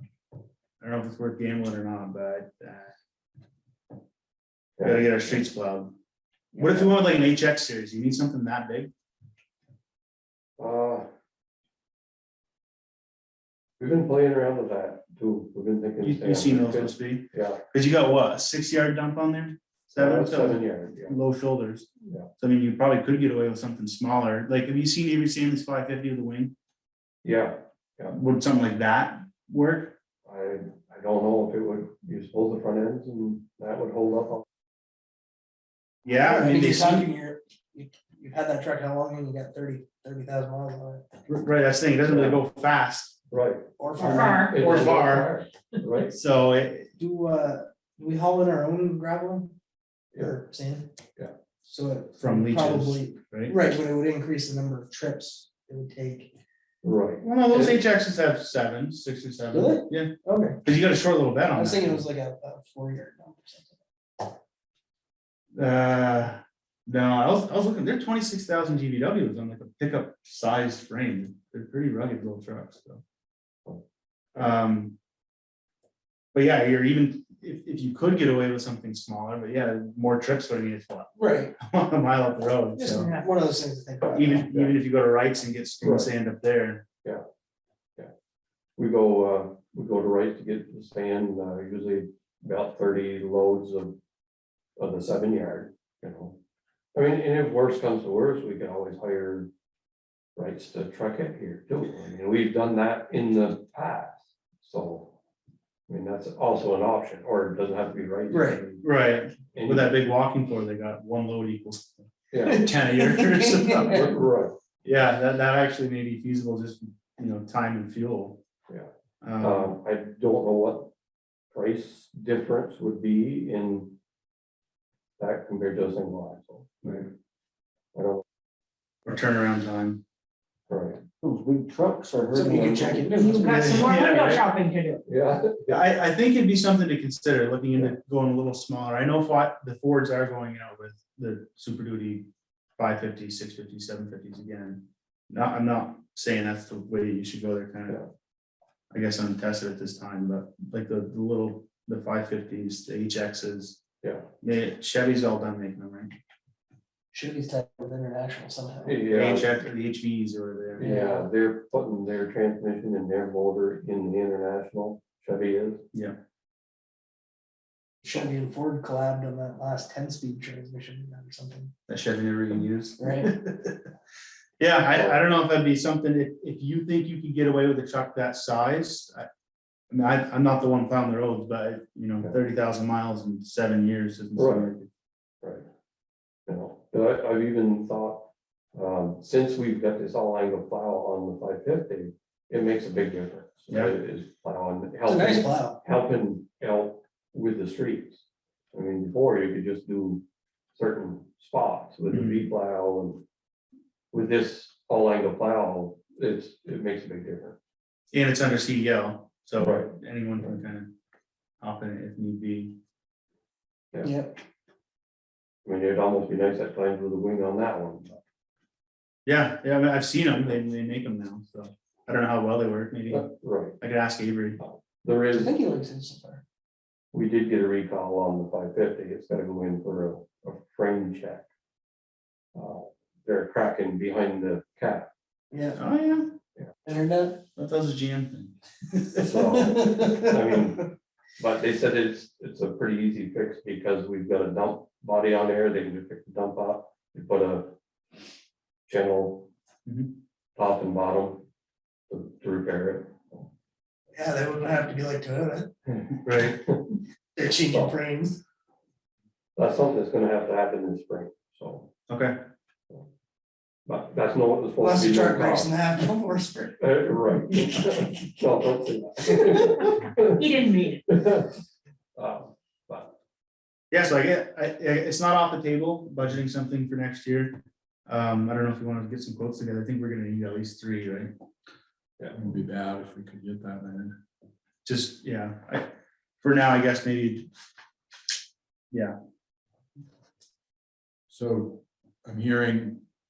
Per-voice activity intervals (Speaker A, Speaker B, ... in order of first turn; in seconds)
Speaker A: 0.8-2.9, 4.8-5.9, 6.6-8.9, 16.0-21.9, 22.4-26.5, 28.1-29.9, 36.0-37.1, 41.3-43.1, 44.5-45.3, 46.1-46.9, 52.2-53.6, 57.2-60.1, 60.6-62.0, 65.5-73.0, 74.3-74.9, 76.3-83.1, 84.1-86.8, 108.8-111.9, 112.5-114.1, 114.8-118.4, 119.2-119.7, 129.1-130.0, 133.4-134.5, 135.7-148.0, 148.9-153.8, 154.4-156.1, 159.1-161.1, 171.9-173.8, 174.6-179.3, 179.9-184.9, 193.7-193.9, 202.1-202.5, 208.1-210.9, 211.6-212.8, 219.2-224.6, 235.8-236.3, 237.6-239.2, 249.8-250.1, 256.2-256.6, 262.1-262.4, 273.9-281.3, 284.9-285.9, 286.4-287.5
Speaker B: 4.8-5.1, 6.5-6.9, 10.6-11.1, 13.8-17.6, 19.9-21.1, 27.2-28.1, 30.2-34.4, 42.1-42.4, 43.3-46.1, 56.8-57.8, 84.2-84.7, 85.8-86.1, 88.8-94.0, 94.8-96.4, 96.9-99.5, 100.4-105.2, 105.9-108.8, 109.5-109.9, 112.3-112.7, 113.9-114.5, 119.4-120.9, 121.5-124.0, 125.2-127.1, 127.9-128.2, 130.7-131.0, 135.1-135.8, 154.0-154.3, 158.8-159.5, 160.8-165.8, 174.9-175.2, 184.3-184.7, 186.5-200.2, 200.8-203.2, 204.1-207.6, 209.6-209.9, 215.7-218.2, 223.1-223.8, 224.6-225.5, 227.1-231.4, 232.5-235.1, 239.2-247.7, 248.9-249.5, 250.6-251.4, 252.1-253.5, 255.9-257.0, 259.6-261.9, 263.9-265.7, 266.8-270.4, 271.1-271.6, 272.2-273.1
Speaker C: 36.2-41.0, 43.8-45.3, 47.0-49.5, 50.2-50.9, 51.6-56.3, 59.5-60.6, 61.5-63.8, 81.2-81.5, 82.8-84.5, 108.3-108.6, 112.9-114.0, 132.3-133.9, 157.1-159.0, 160.8-161.2, 168.0-171.7, 173.0-173.3, 195.0-195.8, 214.0-214.4, 225.3-226.4, 235.5-235.8, 236.8-237.4, 239.3-240.3, 254.2-255.7, 257.4-258.4, 264.8-266.8
Speaker D: 44.0-44.8, 82.9-83.3, 133.2-135.0, 269.9-271.1
Speaker E: 131.2-133.3
Speaker F: 282.3-284.2, 291.3-293.1